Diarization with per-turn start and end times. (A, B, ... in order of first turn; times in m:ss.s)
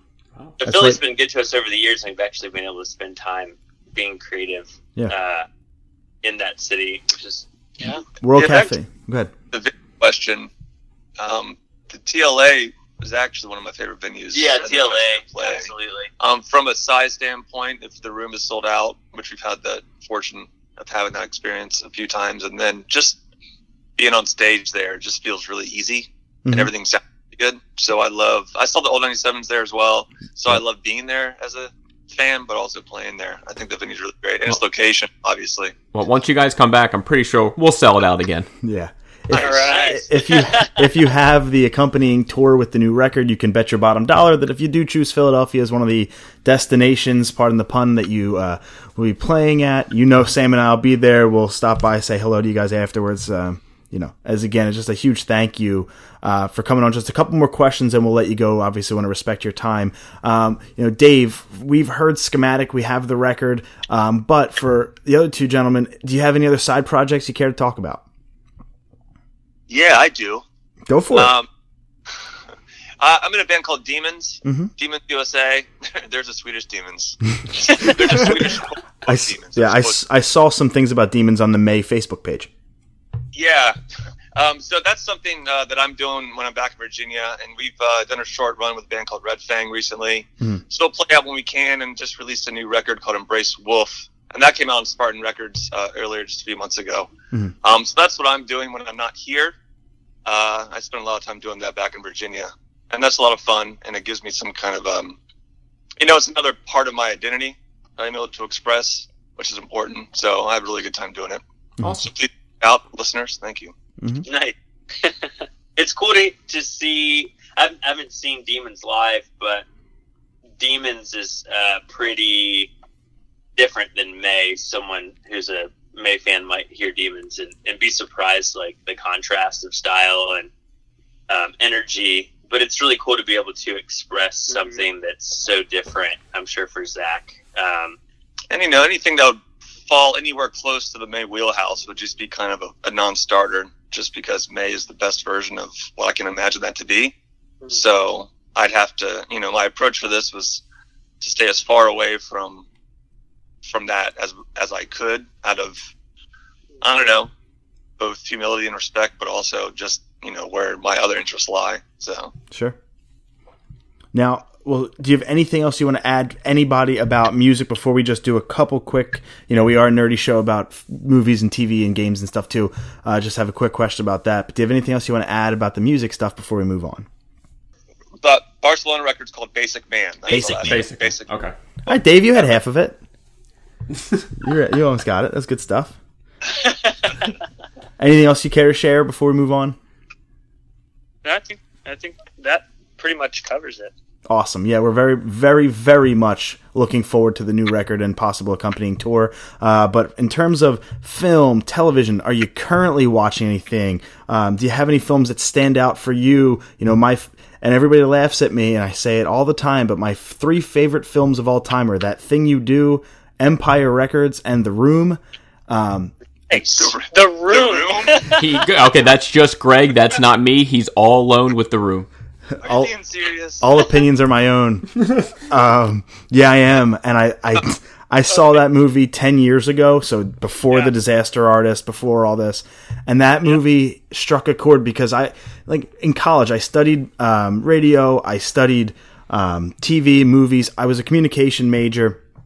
0:00.6-0:05.5 A
0:00.6-0:01.0 B
0:06.2-0:07.4 A
0:08.2-0:09.3 B
0:08.4-0:08.7 C
0:09.5-0:10.5 C
0:11.2-0:23.2 C
0:14.3-0:16.1 A
0:24.0-0:35.8 C
0:35.9-0:38.5 D
0:38.6-1:08.0 B
0:39.3-0:40.7 E
0:39.7-0:40.0 A
1:09.7-1:10.4 C
1:10.9-1:11.3 B
1:11.1-1:11.5 C
1:13.0-1:20.0 C
1:14.4-1:14.7 B
1:19.1-1:22.5 B
1:23.3-1:23.8 C
1:24.4-1:37.1 C
1:37.6-1:39.6 C
1:40.3-1:45.2 C
1:46.0-1:51.4 C
1:51.8-1:52.0 B
1:51.8-1:52.1 D
1:52.0-1:53.7 C
1:54.0-1:54.3 B
1:54.2-1:55.1 A
1:55.8-1:59.6 A
2:00.6-2:02.7 A
2:03.6-2:10.5 A
2:11.3-2:18.0 A
2:14.5-2:14.8 E
2:18.5-2:27.2 C
2:27.7-2:30.6 C
2:31.2-2:32.7 C
2:33.6-2:35.9 C
2:36.8-2:37.3 C
2:38.0-2:42.3 C
2:42.5-2:42.8 B
2:44.1-2:57.1 B
2:58.2-3:01.3 C
3:00.3-3:00.8 A
3:00.3-3:01.6 D
3:01.9-3:03.0 B
3:04.4-3:06.0 B
3:08.0-3:09.8 B
3:11.2-3:13.9 E
3:14.3-3:36.2 B
3:36.5-3:38.5 E
3:36.7-3:38.3 C
3:38.4-3:42.1 D
3:42.6-3:42.9 B
3:42.6-3:43.9 C
3:43.6-4:02.2 B